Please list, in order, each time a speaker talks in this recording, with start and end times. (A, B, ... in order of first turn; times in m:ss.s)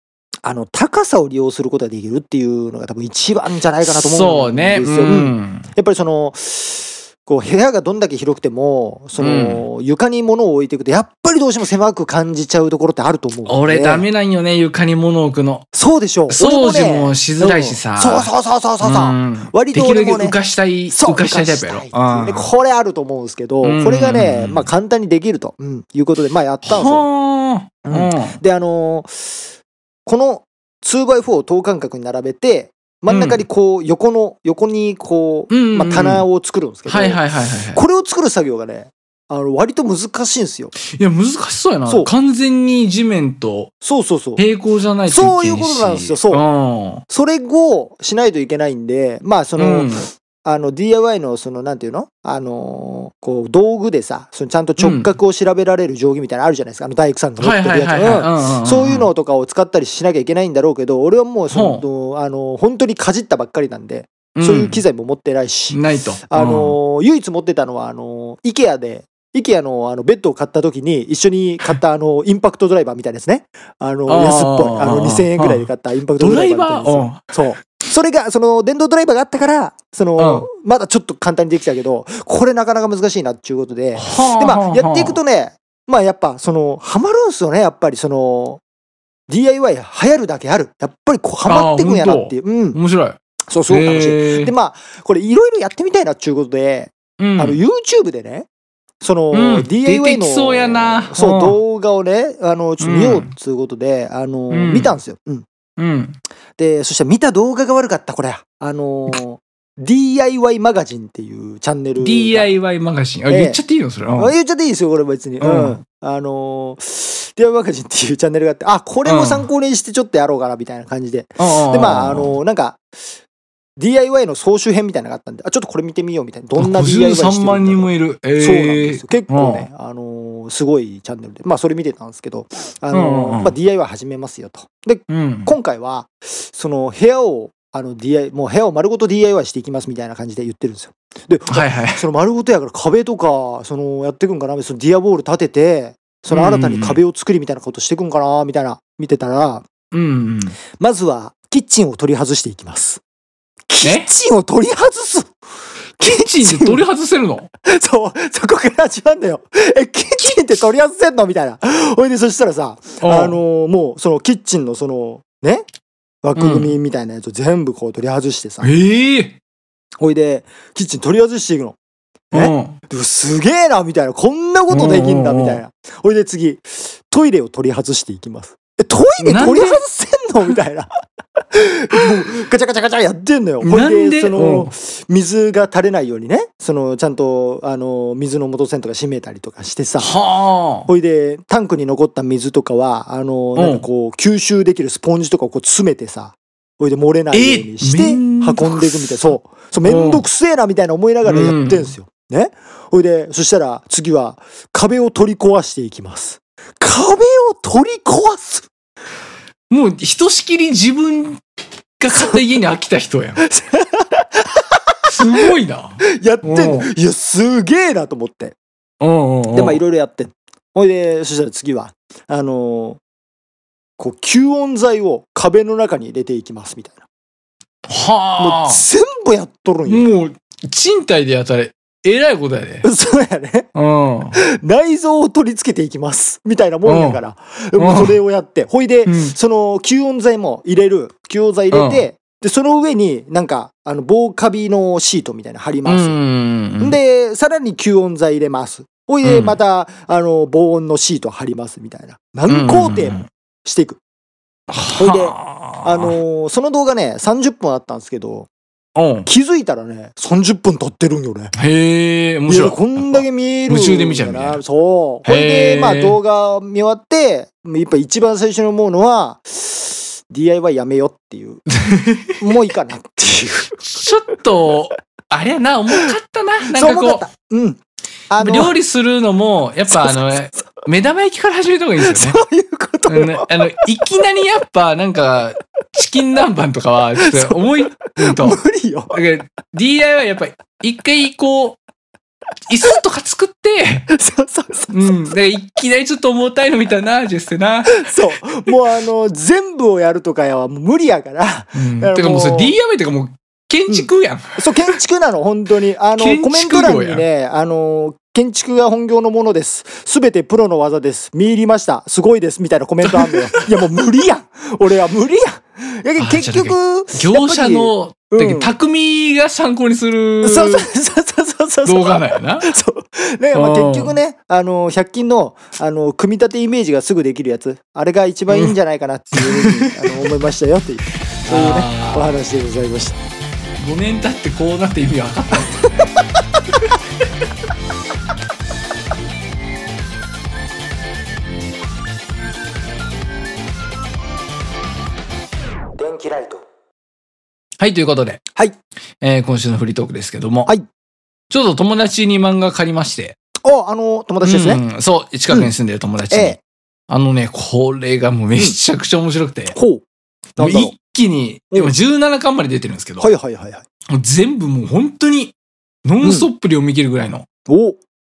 0:00.4-0:14.1 A
0:03.8-0:05.7 B
0:09.2-0:09.6 B
0:13.4-0:15.7 B
0:15.7-0:20.4 A
0:16.3-0:18.3 B
0:18.8-0:22.5 B
0:20.9-0:27.0 A
0:23.6-0:24.7 B
0:26.6-0:28.4 B
0:27.8-0:29.3 A
0:30.0-0:40.7 A
0:33.1-0:33.4 B
0:35.5-0:36.2 B
0:36.9-0:37.8 B
0:40.9-0:43.7 B
0:41.9-0:42.1 A
0:43.8-0:44.4 A
0:44.4-0:47.0 B
0:45.1-0:46.4 A
0:47.1-1:05.8 A
0:49.6-0:50.1 B
0:54.8-0:55.1 B
0:57.4-0:59.1 B
1:01.5-1:01.8 B
1:04.3-1:04.8 B
1:05.7-1:06.8 B
1:06.3-1:28.6 A
1:14.1-1:15.7 B
1:16.2-1:17.3 B
1:20.2-1:20.5 B
1:24.0-1:25.2 B
1:29.3-1:32.8 A
1:31.4-1:33.2 B
1:33.5-1:38.5 A
1:33.7-1:34.5 B
1:37.2-1:37.6 B
1:39.0-1:45.4 A
1:39.3-1:41.6 B
1:42.8-1:43.3 B
1:44.5-1:44.9 B
1:45.8-1:46.2 B
1:46.6-1:52.5 A
1:52.0-1:54.3 B
1:53.3-1:53.6 A
1:54.2-2:02.8 A
1:55.4-1:55.8 B
1:59.0-1:59.5 B
2:01.4-2:02.3 B
2:03.8-2:29.6 A
2:06.6-2:09.7 B
2:12.9-2:13.5 B
2:15.1-2:15.5 B
2:21.5-2:22.0 B
2:26.3-2:27.0 B
2:29.9-2:30.6 B
2:30.8-2:33.0 A
2:33.7-2:35.3 A
2:33.8-2:34.1 B
2:36.0-2:36.8 A
2:36.0-2:37.5 B
2:37.6-2:45.6 A
2:43.0-2:43.4 B
2:46.2-2:48.7 A
2:46.4-2:46.7 B
2:48.6-2:49.4 B
2:50.0-2:51.8 A
2:52.3-3:00.9 A
2:52.3-2:52.8 B
2:54.7-2:55.6 B
2:59.2-2:59.8 B
3:01.5-3:10.2 A
3:03.6-3:04.7 B
3:10.0-3:10.9 B
3:10.9-3:28.7 A
3:13.6-3:13.8 B
3:17.3-3:19.3 B
3:19.8-3:20.2 B
3:21.2-3:21.9 B
3:29.7-3:31.4 B
3:32.0-3:33.4 B
3:33.4-3:38.5 A
3:35.1-3:36.9 B
3:39.0-3:39.8 B
3:39.5-3:43.0 A
3:44.0-3:47.0 A
3:47.8-3:48.8 B
3:48.4-3:50.1 A
3:49.8-3:52.8 B
3:52.8-3:53.7 A
3:53.7-3:54.4 B
3:54.3-4:06.2 A
3:56.8-3:57.2 B
3:57.8-3:58.2 B
3:59.0-3:59.3 B
4:01.7-4:02.0 B
4:05.8-4:07.0 B
4:06.8-4:14.0 A
4:09.2-4:09.6 B
4:12.5-4:13.2 B
4:14.7-4:16.2 B
4:14.9-4:18.5 A
4:18.9-4:19.3 B
4:19.2-4:21.5 A
4:21.5-4:24.6 B
4:22.5-4:31.7 A
4:25.2-4:26.2 B
4:31.8-4:32.4 B
4:32.4-4:33.8 A
4:33.8-4:37.2 B
4:36.7-4:38.7 A
4:38.4-4:42.4 B
4:39.9-4:40.6 A
4:42.0-4:43.8 A
4:43.1-4:48.6 B
4:47.2-4:49.2 A
4:49.1-4:51.8 B
4:52.7-4:54.1 B
4:54.1-4:55.2 A
4:54.9-4:58.1 B
4:57.9-5:02.7 A
5:01.7-5:04.7 B
5:03.9-5:18.7 A
5:06.2-5:07.2 B
5:13.0-5:13.8 B
5:16.2-5:20.9 B
5:20.4-5:33.2 A
5:21.8-5:22.7 B
5:23.5-5:24.2 B
5:28.5-5:28.7 B
5:29.3-5:30.2 B
5:31.4-5:32.3 B
5:33.8-5:35.9 B
5:46.0-5:46.6 A
5:47.8-5:48.4 B
5:49.2-5:50.7 B
5:51.5-5:53.4 B
5:53.6-5:54.8 A
5:54.4-5:56.6 B
5:56.3-5:56.6 A
5:57.1-5:59.8 B
5:59.7-6:00.0 A
6:00.6-6:00.9 A
6:00.6-6:03.3 B
6:03.2-6:03.8 A
6:04.1-6:07.4 B
6:06.2-6:06.5 A
6:07.7-6:08.0 A